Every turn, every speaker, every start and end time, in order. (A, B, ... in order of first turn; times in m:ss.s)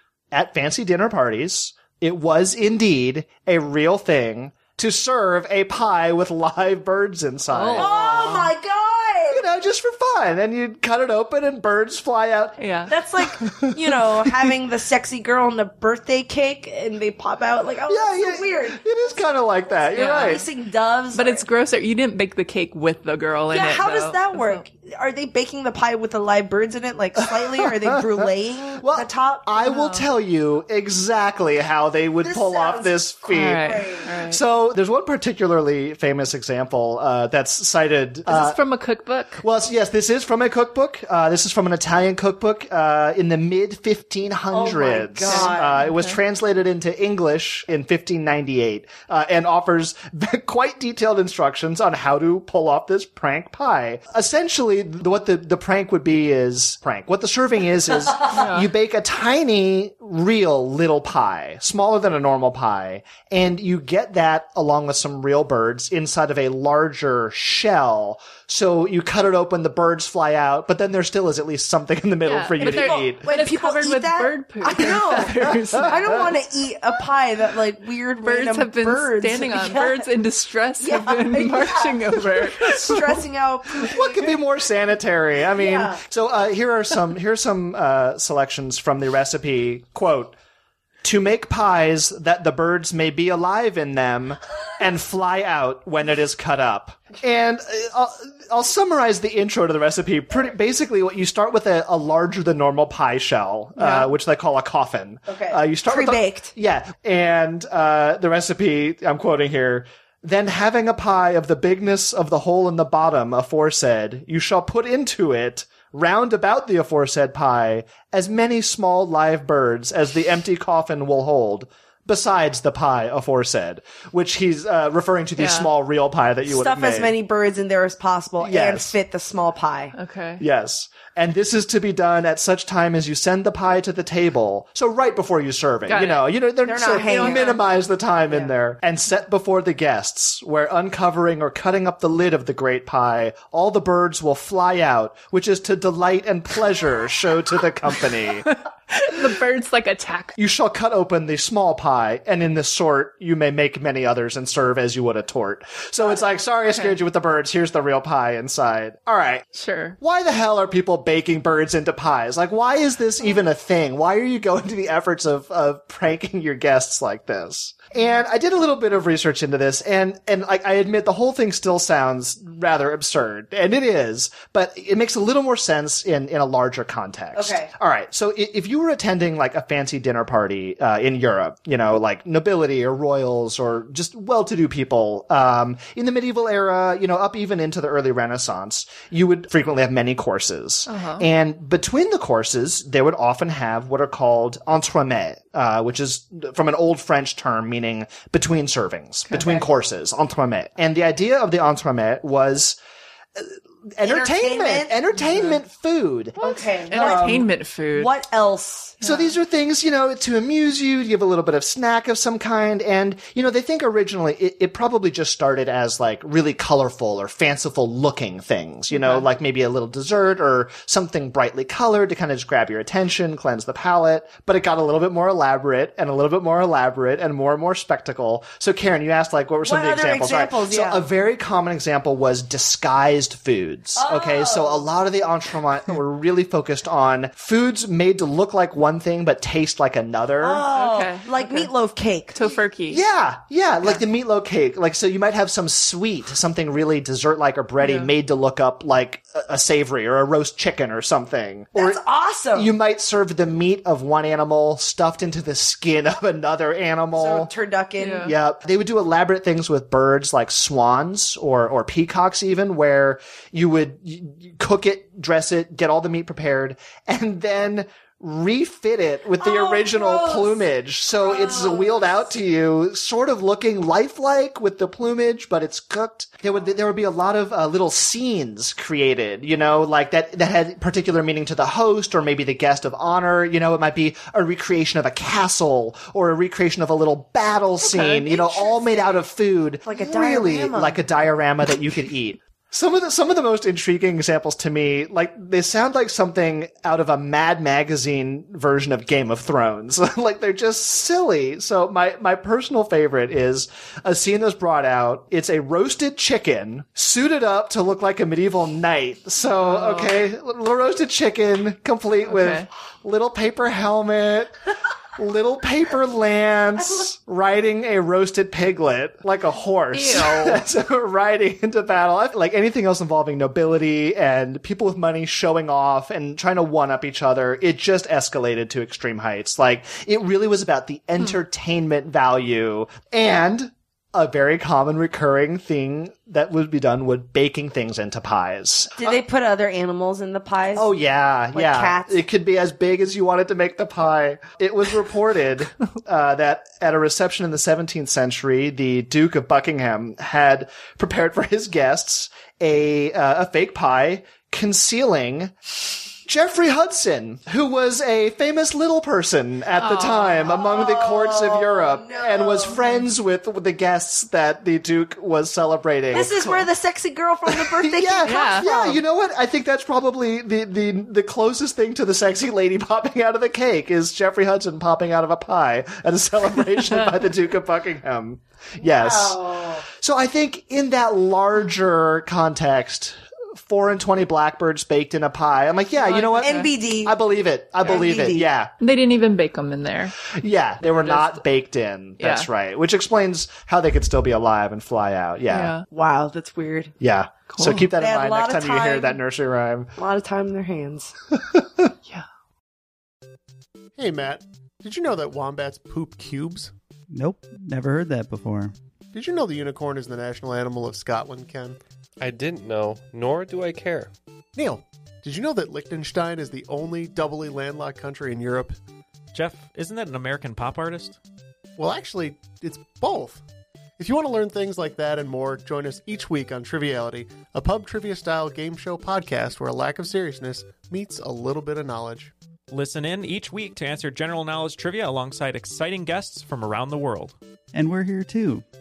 0:00.3-0:08.5 A
0:07.5-0:08.4 B
0:07.8-0:09.4 C
0:09.3-0:12.6 A
0:12.6-0:12.9 B
0:12.9-0:18.8 C
0:13.4-0:14.5 A
0:17.9-0:20.4 A
0:19.9-0:20.5 B
0:20.0-0:21.4 C
0:21.1-0:24.6 B
0:23.5-0:29.5 C
0:27.4-0:28.0 A
0:28.8-0:38.6 A
0:29.6-0:30.1 B
0:32.2-0:34.1 C
0:33.3-0:34.4 B
0:38.3-0:39.4 B
0:39.4-1:13.3 A
0:44.5-0:45.8 C
0:45.3-0:46.2 B
0:58.3-0:58.7 B
1:12.2-1:16.3 B
1:12.6-1:20.1 C
1:15.2-1:15.8 A
1:18.2-1:23.2 B
1:20.8-1:24.3 C
1:23.8-1:30.4 A
1:25.5-1:26.0 C
1:31.0-2:07.1 A
1:43.8-1:44.1 B
1:45.3-1:46.5 C
2:05.4-2:05.7 B
2:06.5-2:09.9 C
2:08.4-2:09.0 A
2:10.0-2:10.4 B
2:10.4-2:28.5 A
2:15.9-2:16.3 B
2:16.7-2:17.6 C
2:16.9-2:17.6 B
2:27.9-2:30.4 B
2:30.4-2:39.4 A
2:36.7-2:37.0 B
2:39.5-2:40.0 B
2:40.0-3:22.8 A
2:57.4-2:57.7 C
3:10.9-3:11.3 B
3:23.4-3:27.5 A
3:24.0-3:25.0 C
3:26.4-3:27.3 C
3:26.4-3:28.1 B
3:27.9-3:29.0 C
3:29.0-3:29.4 B
3:29.0-4:00.6 A
3:38.9-3:39.3 B
3:49.6-3:51.0 C
3:54.0-3:54.9 C
4:00.4-4:02.6 C
4:00.7-4:01.7 B
4:02.3-4:03.0 B
4:02.9-4:12.0 A
4:07.8-4:08.1 B
4:11.8-4:12.7 C
4:12.5-4:17.5 A
4:17.2-4:18.3 C
4:18.0-4:18.3 B
4:18.2-5:14.5 A
4:29.4-4:32.3 C
4:47.9-4:49.2 C
4:49.8-4:51.0 C
5:09.5-5:10.2 B
5:12.3-5:12.7 B
5:15.2-5:39.2 A
5:19.9-5:20.6 B
5:39.0-5:40.9 C
5:40.8-5:55.5 A
5:41.5-5:42.2 C
5:56.3-6:06.7 A
5:59.8-6:00.4 B
6:00.5-6:02.8 C
6:06.1-6:09.0 C
6:07.5-6:28.7 A
6:08.2-6:08.7 B
6:18.8-6:19.8 C
6:26.0-6:26.7 B
6:26.4-6:27.2 C
6:27.8-6:28.5 C
6:28.8-6:30.2 B
6:30.3-6:35.8 A
6:30.8-6:31.4 B
6:32.2-6:32.5 B
6:35.5-6:35.9 B
6:35.9-6:36.9 C
6:37.0-6:39.9 A
6:37.5-6:37.9 B
6:38.0-6:39.2 C
6:40.0-6:41.1 C
6:41.4-6:41.9 A
6:44.0-6:46.7 D
6:47.1-6:48.8 E
6:49.1-6:51.8 D
6:52.2-6:54.1 F
6:54.6-6:58.8 D
6:59.3-7:01.2 G
7:01.8-7:03.4 D
7:04.0-7:12.3 D
7:12.7-7:17.4 G
7:17.7-7:18.6 E